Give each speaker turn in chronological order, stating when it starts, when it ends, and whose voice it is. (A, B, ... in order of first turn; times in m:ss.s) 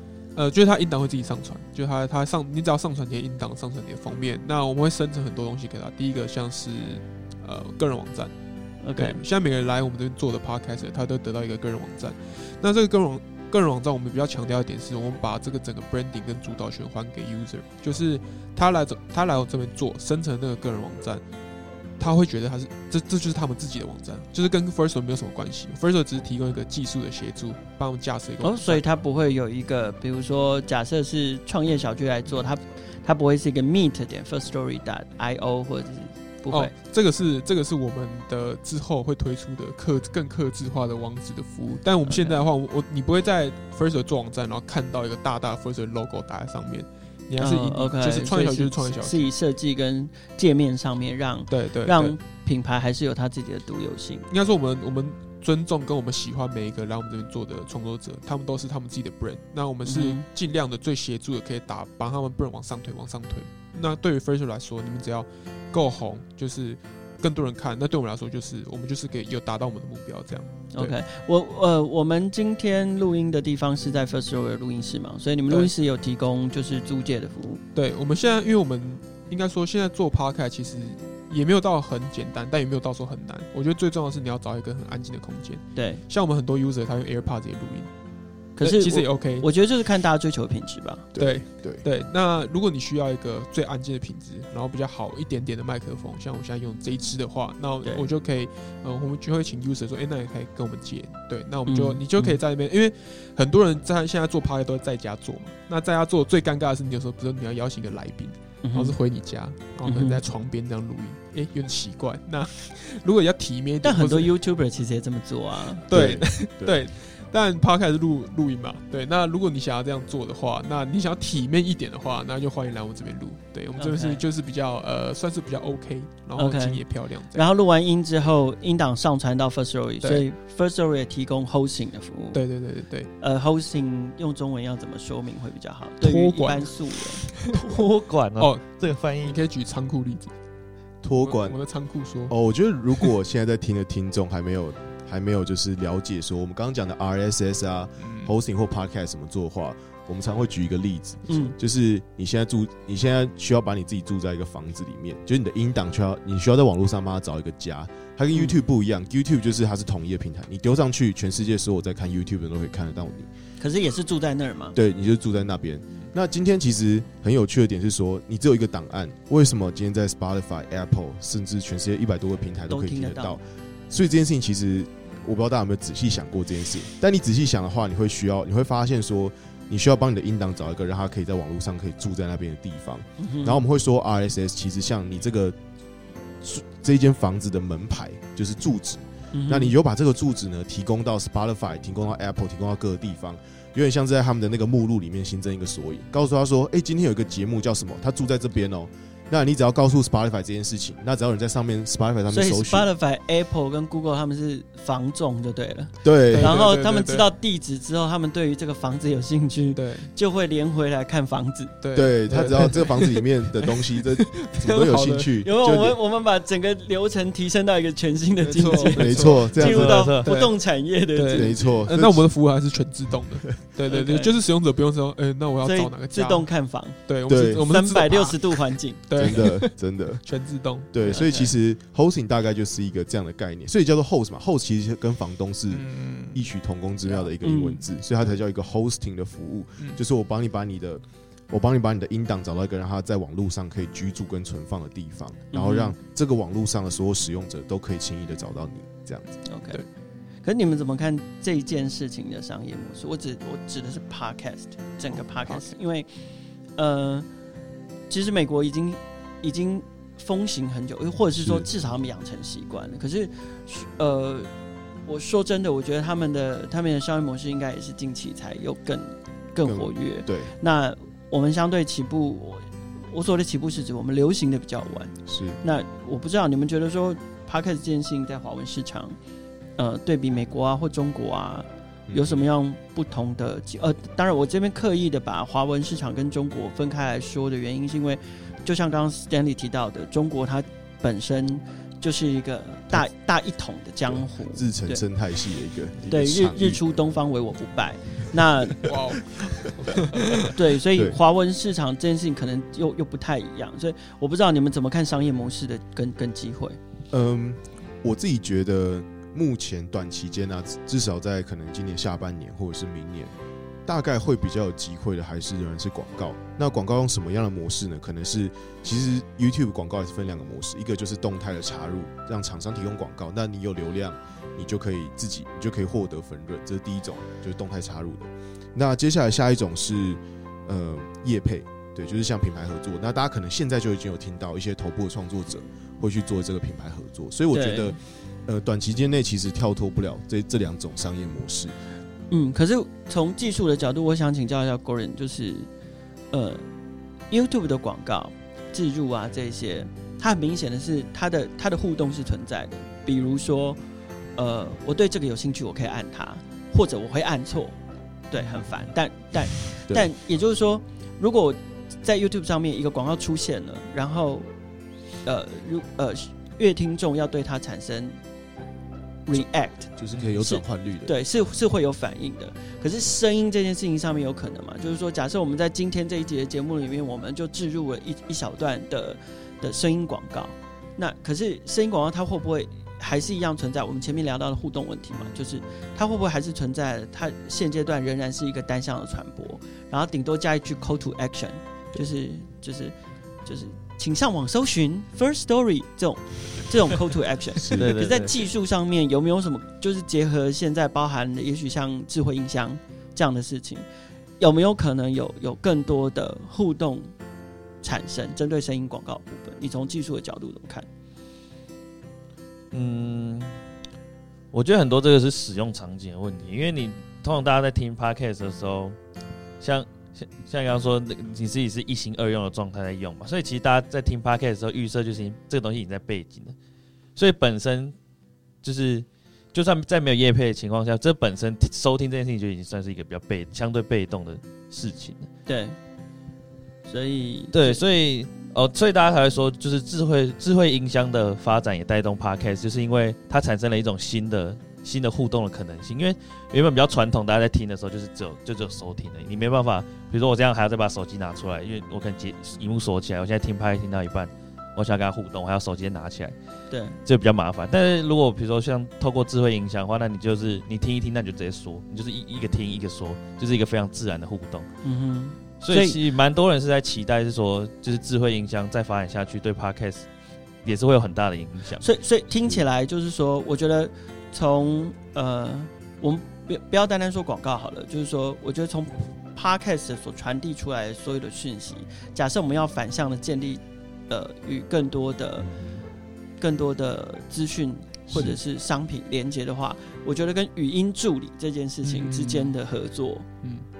0:00.3-0:21.2 A
0:08.8-0:09.2 B
0:22.0-0:28.8 A
0:28.4-0:36.7 B
0:36.5-0:49.3 A
0:42.0-0:42.4 B
0:47.4-0:54.3 B
0:51.5-0:52.2 A
0:54.3-1:11.0 A
0:59.8-1:00.2 B
1:10.7-1:17.6 B
1:17.7-1:27.9 A
1:25.7-1:26.0 B
1:28.6-1:31.1 B
1:28.6-1:29.5 A
1:31.1-1:31.8 C
1:31.2-1:54.3 A
1:41.6-1:42.4 B
1:48.6-1:49.0 B
1:49.8-1:50.2 B
1:53.8-1:55.8 B
1:55.9-2:07.4 A
1:55.9-1:56.9 C
2:03.8-2:04.2 B
2:06.4-2:12.5 B
2:12.3-2:13.1 A
2:13.2-2:17.3 B
2:16.0-2:17.5 A
2:17.5-2:19.4 D
2:18.4-2:20.3 A
2:21.0-2:21.6 C
2:21.2-2:22.4 A
2:22.2-2:43.3 C
2:28.0-2:28.3 A
2:31.3-2:31.5 B
2:38.3-2:38.6 B
2:43.6-2:44.8 B
2:44.7-3:05.6 C
2:52.7-2:53.4 B
3:03.2-3:03.6 B
3:06.4-3:22.9 C
3:09.3-3:09.7 B
3:22.3-3:31.8 B
3:26.0-3:26.6 C
3:26.3-3:27.3 A
3:29.7-3:30.1 A
3:31.8-3:35.4 A
3:31.9-3:36.0 C
3:35.4-3:41.9 B
3:38.4-3:40.4 A
3:38.9-3:40.2 C
3:39.6-3:40.5 D
3:41.1-3:51.3 A
3:41.3-3:42.3 C
3:43.9-3:44.4 B
3:45.6-3:49.0 B
3:47.2-3:47.7 C
3:49.1-4:09.4 C
3:51.0-3:51.5 B
3:55.7-3:56.5 A
3:57.4-3:57.8 B
4:05.5-4:05.9 B
4:09.4-4:09.8 B
4:10.4-4:17.3 B
4:15.2-4:15.7 A
4:18.1-4:24.5 B
4:21.3-4:21.6 C
4:25.0-4:39.2 B
4:29.6-4:30.5 C
4:35.2-4:35.6 C
4:39.8-4:55.0 B
4:42.1-4:42.4 C
4:54.0-4:56.8 C
4:56.1-4:58.9 B
4:58.8-5:00.5 A
5:00.5-5:06.8 B
5:00.9-5:01.2 C
5:07.1-5:13.3 C
5:13.8-5:41.8 C
5:37.5-5:38.0 B
5:42.3-5:45.7 B
5:46.3-5:46.7 B
5:47.3-5:53.8 B
5:54.4-6:04.5 B
5:58.4-5:58.7 A
6:05.2-6:08.2 B
6:09.2-6:43.8 B
6:09.3-6:11.2 C
6:37.6-6:38.0 C
6:37.7-6:38.4 D
6:44.4-6:47.1 B
6:47.8-6:50.9 B
6:52.7-6:53.6 D
6:54.5-6:59.0 D
6:59.6-7:06.6 D
7:07.2-7:08.0 D
7:08.6-7:15.3 D
7:15.4-7:15.8 B
7:16.8-7:17.8 B
7:17.5-7:36.4 D
7:36.7-7:37.0 B
7:37.0-7:44.7 D
7:44.8-7:46.0 B
7:45.6-7:50.1 D
7:50.6-7:51.8 D
7:51.8-8:05.5 B
8:05.4-8:05.8 C
8:06.4-8:13.3 B
8:08.1-8:08.4 C
8:11.8-8:12.6 A